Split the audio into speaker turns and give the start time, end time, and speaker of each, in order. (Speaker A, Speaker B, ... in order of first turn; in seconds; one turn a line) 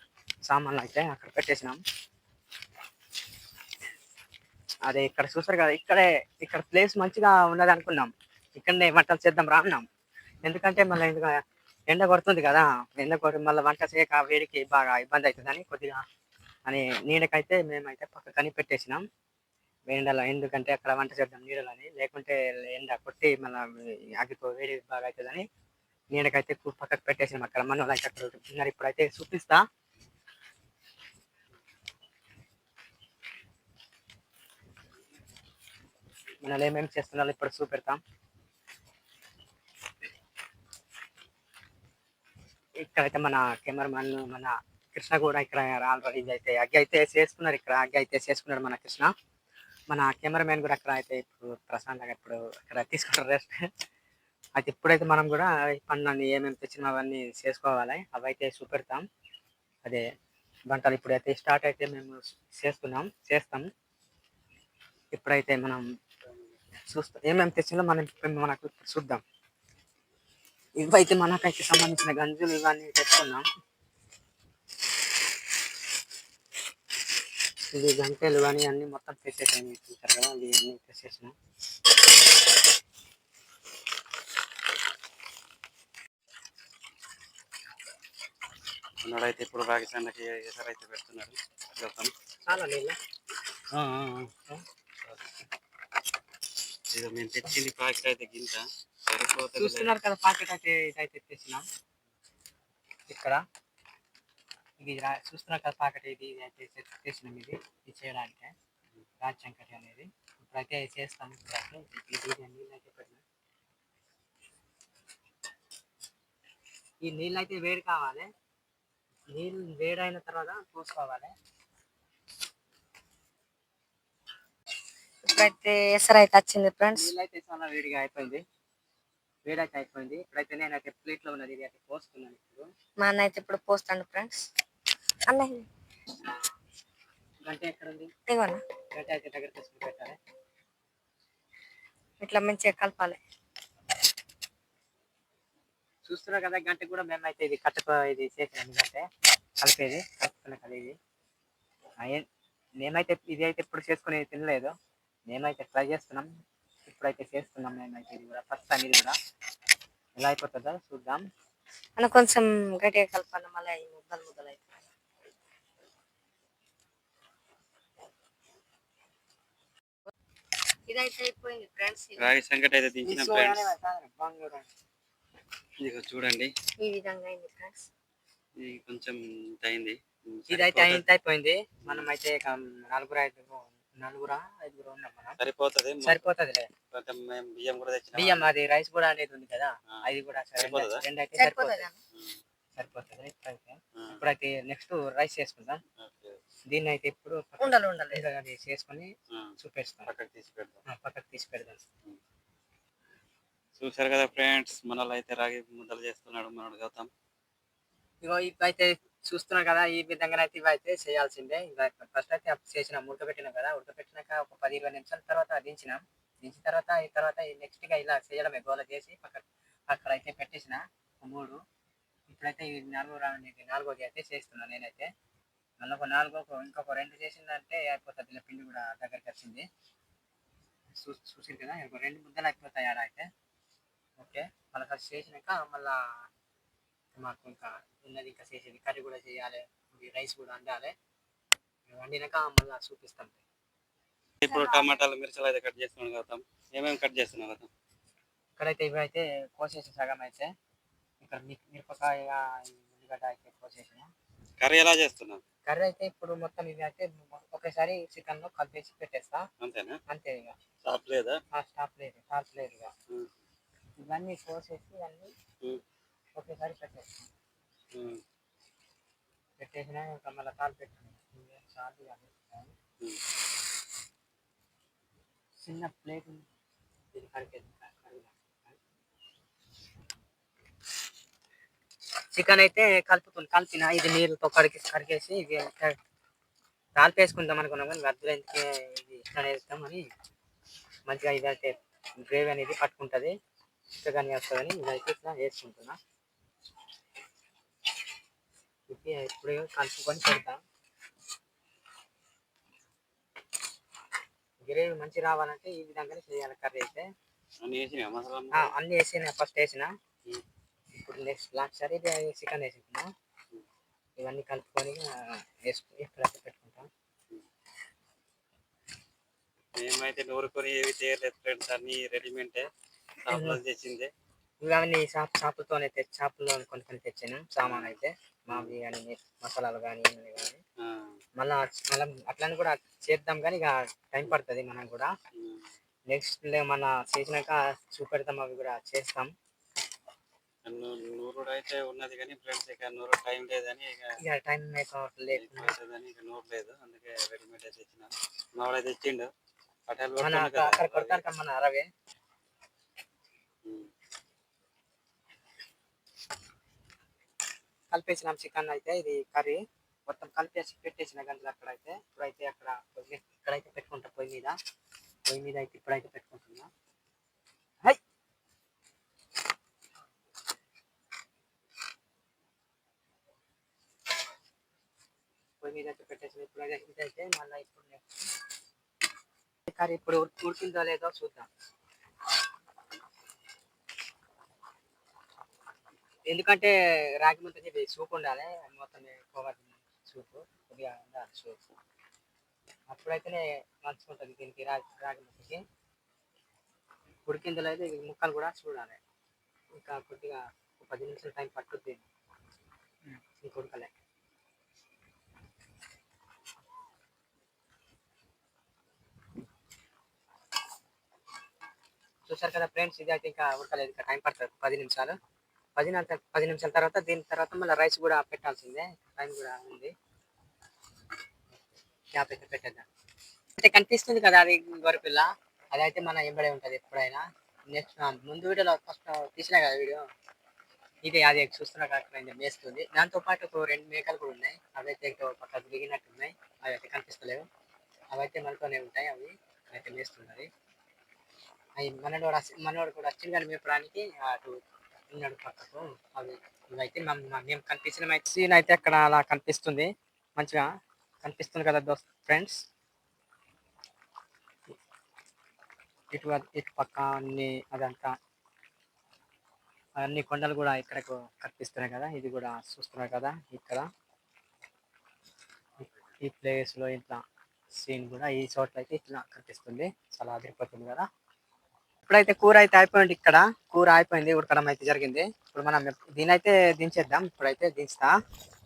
Speaker A: 0.5-1.8
Speaker A: 4.8-9.8
Speaker A: 10.4-16.0
Speaker A: 16.6-19.0
Speaker A: 19.9-25.4
Speaker A: 26.1-29.6
Speaker A: 36.4-38.0
Speaker A: 42.8-49.1
Speaker A: 49.9-53.7
Speaker A: 54.6-59.0
Speaker A: 60.7-63.6
Speaker A: 65.1-65.8
Speaker A: 66.9-69.2
Speaker A: 70.8-73.4
Speaker A: 77.7-81.3
Speaker B: 89.0-92.1
Speaker A: 92.4-93.0
Speaker B: 93.7-94.3
Speaker B: 96.9-99.9
Speaker A: 99.6-101.6
Speaker A: 103.1-103.4
Speaker A: 104.8-108.5
Speaker A: 109.2-113.2
Speaker A: 117.0-118.3
Speaker A: 119.3-121.3
Speaker C: 125.2-127.1
Speaker A: 126.9-128.4
Speaker A: 129.4-132.7
Speaker C: 133.0-134.4
Speaker C: 135.3-135.7
Speaker A: 137.4-138.1
Speaker C: 138.3-138.6
Speaker A: 138.9-140.2
Speaker C: 142.2-143.2
Speaker A: 146.0-149.1
Speaker A: 149.6-151.0
Speaker A: 152.0-152.2
Speaker A: 152.8-154.7
Speaker A: 155.3-156.3
Speaker A: 156.9-159.2
Speaker A: 160.2-161.2
Speaker C: 162.0-164.6
Speaker C: 170.9-172.3
Speaker B: 172.2-173.7
Speaker A: 173.0-174.7
Speaker B: 175.8-176.5
Speaker C: 176.8-177.9
Speaker B: 178.6-181.1
Speaker A: 180.5-185.4
Speaker B: 185.4-186.3
Speaker A: 186.0-186.7
Speaker B: 186.9-188.5
Speaker A: 188.1-191.9
Speaker B: 189.9-191.0
Speaker C: 191.3-192.0
Speaker A: 192.8-195.8
Speaker B: 194.0-194.2
Speaker B: 196.0-196.4
Speaker A: 196.7-200.1
Speaker C: 197.6-198.2
Speaker B: 200.1-200.8
Speaker A: 200.8-201.8
Speaker B: 203.8-207.1
Speaker A: 208.2-221.6
Speaker A: 222.3-225.1
Speaker A: 225.8-229.7
Speaker A: 231.0-233.3
Speaker A: 234.2-236.2
Speaker A: 237.1-240.9
Speaker A: 241.9-243.4
Speaker B: 244.4-247.7
Speaker A: 248.6-250.5
Speaker A: 251.2-254.1
Speaker B: 254.6-255.4
Speaker A: 255.7-259.4
Speaker B: 259.6-260.0
Speaker A: 260.1-260.6
Speaker B: 260.8-261.4
Speaker A: 261.5-262.9
Speaker A: 264.0-265.3
Speaker A: 266.4-267.1
Speaker B: 267.9-268.2
Speaker A: 269.6-272.7
Speaker A: 275.6-276.4
Speaker A: 277.1-278.8
Speaker A: 282.3-285.9
Speaker A: 287.0-290.1
Speaker A: 291.1-293.4
Speaker A: 294.0-296.0
Speaker A: 298.9-300.6
Speaker A: 304.6-307.1
Speaker B: 307.6-308.7
Speaker A: 308.5-309.9
Speaker A: 310.9-313.1
Speaker A: 314.2-316.9
Speaker B: 319.8-322.7
Speaker B: 323.2-324.1
Speaker A: 323.3-323.6
Speaker A: 324.6-330.6
Speaker B: 327.6-328.0
Speaker B: 330.8-331.1
Speaker A: 331.4-335.1
Speaker B: 335.3-335.7
Speaker A: 336.1-339.3
Speaker B: 340.6-344.1
Speaker A: 344.2-345.7
Speaker B: 345.3-349.3
Speaker B: 349.9-351.2
Speaker A: 350.2-351.9
Speaker B: 353.6-353.9
Speaker A: 357.9-364.6
Speaker A: 365.3-366.7
Speaker A: 375.6-378.1
Speaker A: 379.7-381.5
Speaker A: 386.3-391.7
Speaker A: 392.9-395.6
Speaker A: 397.2-399.0
Speaker A: 399.8-402.0
Speaker A: 403.1-403.9
Speaker A: 412.3-415.1
Speaker A: 415.8-419.9
Speaker A: 422.1-422.9
Speaker A: 423.6-430.0
Speaker A: 431.0-437.4
Speaker A: 438.1-440.5
Speaker A: 441.8-444.6
Speaker A: 445.1-450.6
Speaker A: 451.2-452.6
Speaker A: 456.1-458.1
Speaker A: 460.0-463.9
Speaker A: 466.2-467.2
Speaker A: 467.8-471.1
Speaker A: 472.1-478.1